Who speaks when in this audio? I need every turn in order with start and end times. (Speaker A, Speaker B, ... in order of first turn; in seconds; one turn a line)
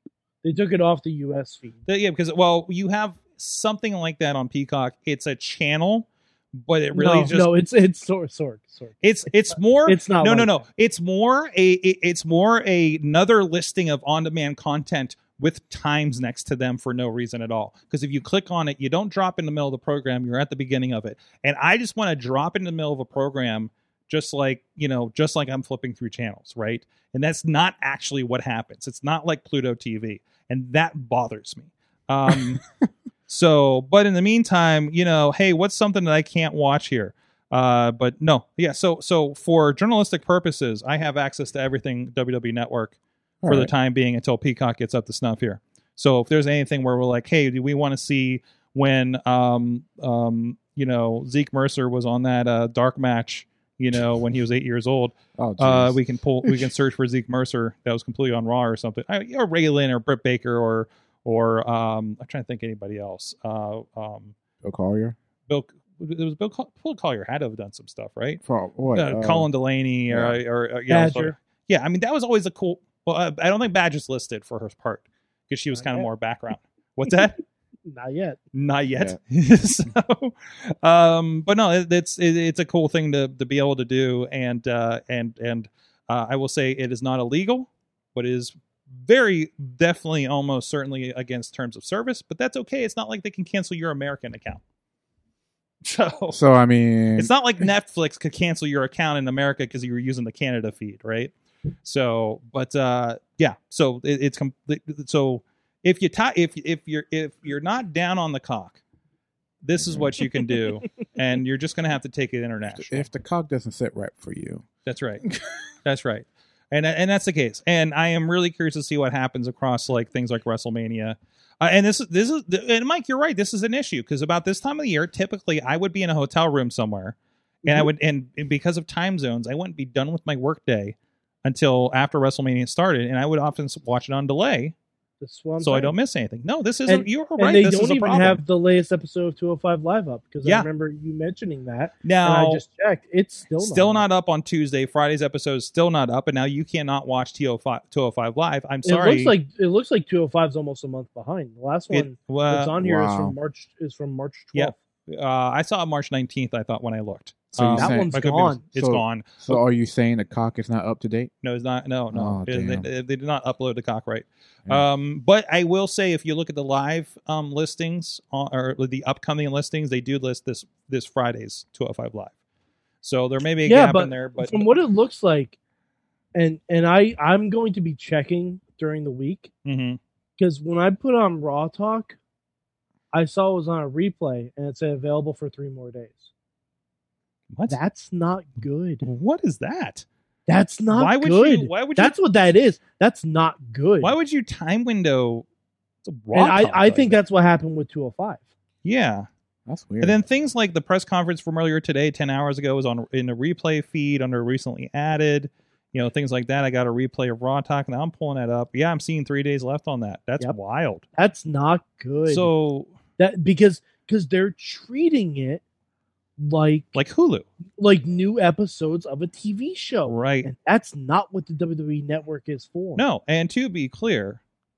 Speaker A: 0.4-1.8
Speaker B: 1.9-7.5
Speaker A: 6.9-10.6
Speaker B: 9.0-32.6
Speaker B: 33.3-64.3
Speaker C: 43.4-43.7
Speaker C: 55.4-56.6
Speaker C: 64.6-65.2
Speaker B: 65.5-68.4
Speaker C: 68.4-69.5
Speaker B: 68.9-77.4
Speaker C: 70.1-70.4
Speaker A: 70.9-71.3
Speaker A: 75.7-76.1
Speaker A: 77.9-78.4
Speaker B: 78.5-94.6
Speaker B: 95.8-96.4
Speaker C: 96.3-97.3
Speaker B: 97.2-101.3
Speaker B: 101.8-108.8
Speaker B: 109.6-113.1
Speaker C: 109.8-110.1
Speaker C: 112.7-114.7
Speaker B: 114.8-115.2
Speaker B: 115.8-134.7
Speaker A: 127.6-127.9
Speaker A: 135.2-135.9
Speaker B: 135.6-138.4
Speaker A: 136.9-144.0
Speaker B: 142.0-142.6
Speaker B: 143.6-149.3
Speaker A: 148.8-154.7
Speaker B: 151.9-152.8
Speaker C: 152.8-153.3
Speaker B: 154.5-159.6
Speaker C: 157.6-158.1
Speaker A: 157.7-158.6
Speaker C: 158.7-161.3
Speaker B: 161.4-172.3
Speaker C: 162.1-162.9
Speaker B: 173.0-174.7
Speaker A: 173.6-175.6
Speaker A: 176.3-179.5
Speaker B: 179.6-180.0
Speaker A: 180.4-182.2
Speaker A: 183.1-186.3
Speaker B: 187.5-187.8
Speaker A: 187.7-189.0
Speaker B: 189.0-190.0
Speaker A: 190.5-194.1
Speaker B: 190.9-192.1
Speaker B: 194.0-195.4
Speaker B: 196.1-197.2
Speaker A: 196.3-198.4
Speaker B: 198.8-199.3
Speaker C: 199.7-200.2
Speaker B: 200.0-211.0
Speaker A: 211.2-212.5
Speaker B: 212.2-212.9
Speaker A: 213.2-215.6
Speaker A: 216.4-217.0
Speaker B: 216.9-217.4
Speaker A: 217.8-223.0
Speaker B: 220.1-220.5
Speaker B: 222.9-224.4